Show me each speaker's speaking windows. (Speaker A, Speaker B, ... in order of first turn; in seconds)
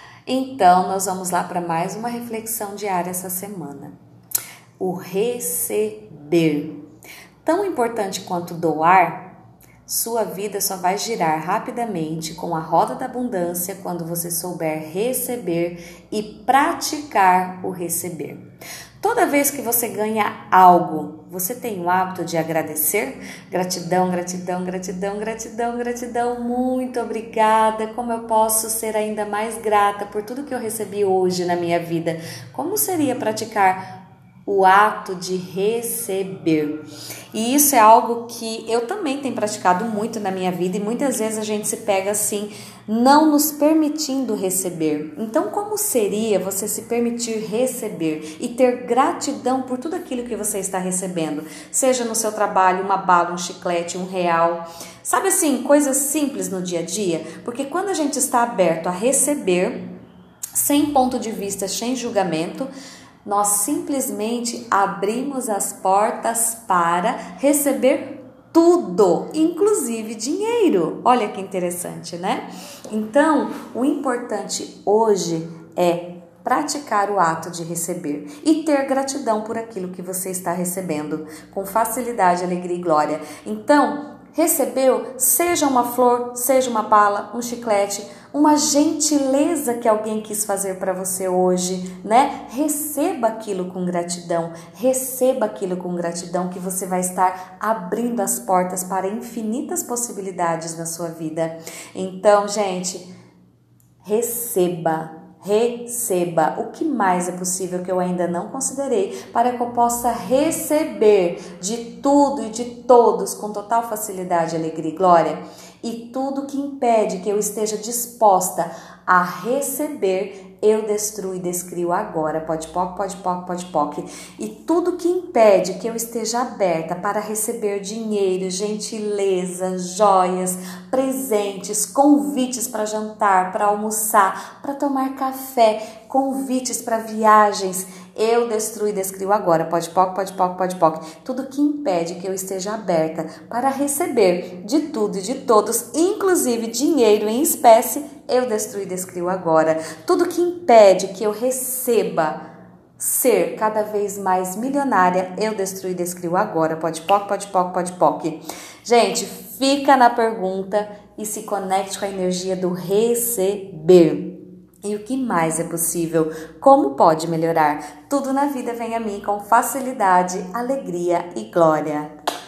Speaker A: 0.3-4.0, 4.8-6.8, 7.4-9.3, 9.9-18.4, 19.0-33.8, 34.5-36.8, 37.3-59.9, 60.5-62.7, 63.2-103.1, 104.0-152.4, 153.0-172.1